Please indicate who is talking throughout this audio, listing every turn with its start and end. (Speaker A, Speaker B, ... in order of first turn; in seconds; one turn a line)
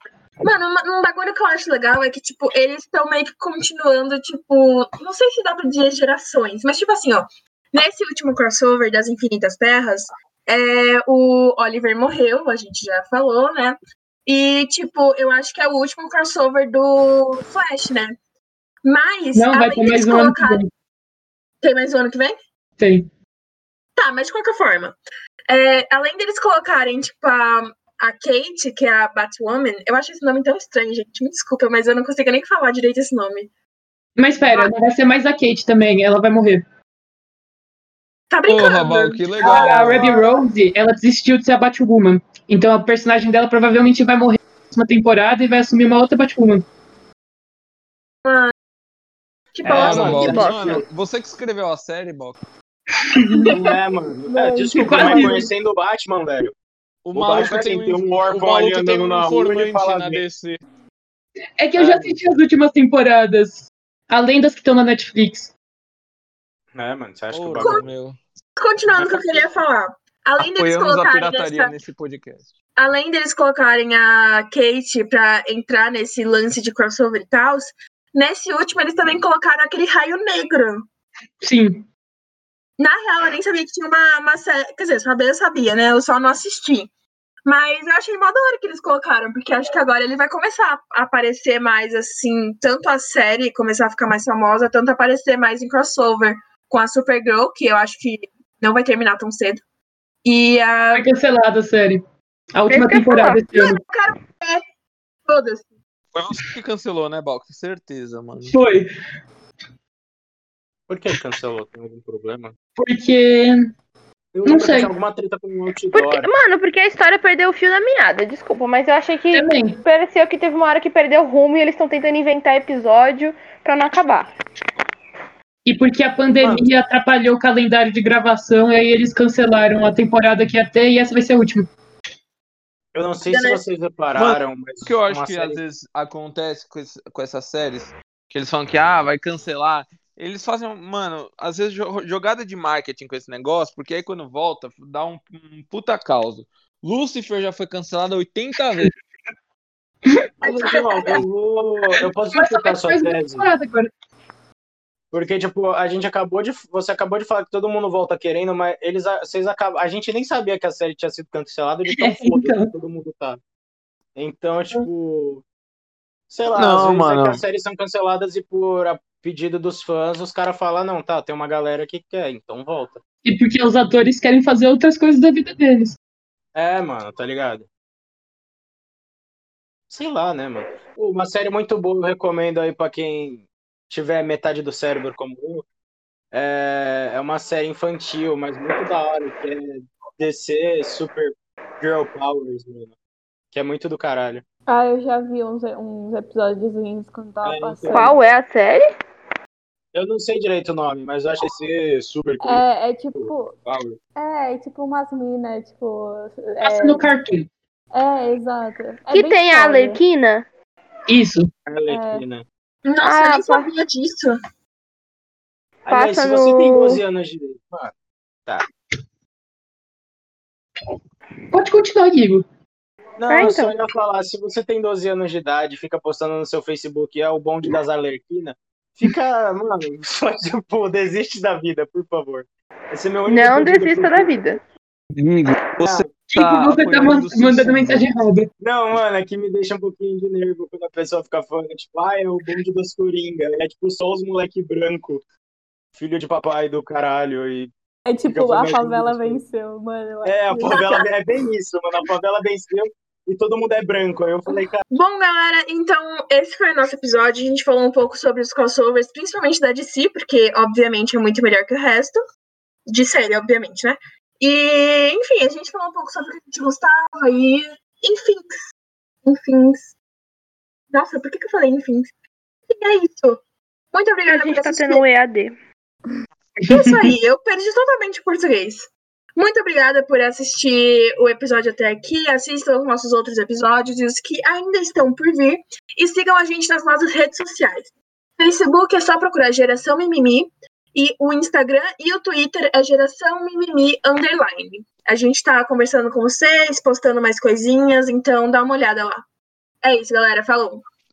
Speaker A: 0.4-18.1
Speaker A: 18.8-20.6
Speaker B: 19.3-20.7
Speaker A: 21.6-22.4
Speaker B: 22.8-23.1
Speaker A: 23.9-24.9
Speaker A: 25.5-33.5
Speaker B: 34.2-36.6
Speaker A: 38.3-40.4
Speaker C: 38.5-40.2
Speaker B: 39.4-46.6
Speaker A: 48.2-48.5
Speaker A: 49.5-50.5
Speaker C: 49.6-52.4
Speaker D: 49.7-50.8
Speaker E: 50.2-50.8
Speaker B: 53.3-53.7
Speaker D: 53.5-56.5
Speaker F: 54.2-55.4
Speaker B: 54.7-55.5
Speaker C: 57.0-60.6
Speaker D: 57.1-60.2
Speaker B: 61.6-65.5
Speaker C: 61.8-62.2
Speaker D: 66.7-67.8
Speaker C: 67.3-68.2
Speaker A: 67.6-67.8
Speaker A: 68.6-71.7
Speaker C: 68.9-69.5
Speaker C: 70.4-72.5
Speaker A: 72.8-80.8
Speaker B: 81.4-81.8
Speaker A: 82.8-86.9
Speaker A: 87.5-99.6
Speaker A: 100.2-101.0
Speaker B: 100.9-103.8
Speaker E: 102.7-103.5
Speaker A: 103.5-104.6
Speaker A: 105.2-105.7
Speaker C: 106.1-108.6
Speaker B: 108.5-108.9
Speaker D: 110.9-112.5
Speaker B: 112.8-113.7
Speaker D: 114.3-116.3
Speaker B: 114.4-114.9
Speaker E: 115.9-124.3
Speaker B: 119.3-119.8
Speaker B: 125.6-131.7
Speaker D: 132.9-135.6
Speaker A: 133.3-133.6
Speaker C: 134.1-148.9
Speaker A: 150.4-151.2
Speaker D: 150.4-153.5
Speaker B: 152.3-153.9
Speaker D: 155.1-163.4
Speaker B: 161.9-162.7
Speaker D: 164.2-165.4
Speaker D: 166.3-173.0
Speaker C: 166.6-167.4
Speaker B: 173.2-176.0
Speaker D: 176.5-177.7
Speaker D: 179.9-185.7
Speaker D: 186.3-192.9
Speaker D: 193.5-194.4
Speaker F: 194.7-198.1
Speaker D: 197.4-198.1
Speaker E: 197.9-198.8
Speaker D: 199.9-202.6
Speaker F: 202.4-203.6
Speaker D: 203.1-204.0
Speaker F: 204.2-207.1
Speaker B: 206.6-207.5
Speaker F: 207.9-210.0
Speaker E: 209.1-210.5
Speaker B: 211.1-211.5
Speaker D: 211.7-212.4
Speaker F: 211.9-212.2
Speaker A: 212.8-214.4
Speaker E: 213.0-213.7
Speaker D: 215.9-217.9
Speaker E: 215.9-217.0
Speaker B: 221.5-222.4
Speaker D: 223.2-234.5
Speaker E: 223.2-223.8
Speaker E: 233.2-234.6
Speaker C: 235.1-238.1
Speaker D: 235.8-236.1
Speaker B: 236.3-238.5
Speaker D: 238.6-245.2
Speaker D: 245.9-247.7
Speaker F: 248.1-251.0
Speaker D: 248.3-249.4
Speaker D: 250.2-254.8
Speaker A: 250.7-251.0
Speaker A: 254.9-262.2
Speaker A: 262.9-268.6
Speaker A: 269.2-269.9
Speaker A: 270.9-272.1
Speaker A: 272.7-273.4
Speaker A: 273.9-275.0
Speaker E: 274.3-275.5
Speaker A: 276.7-299.2
Speaker B: 276.7-277.1
Speaker A: 299.8-300.8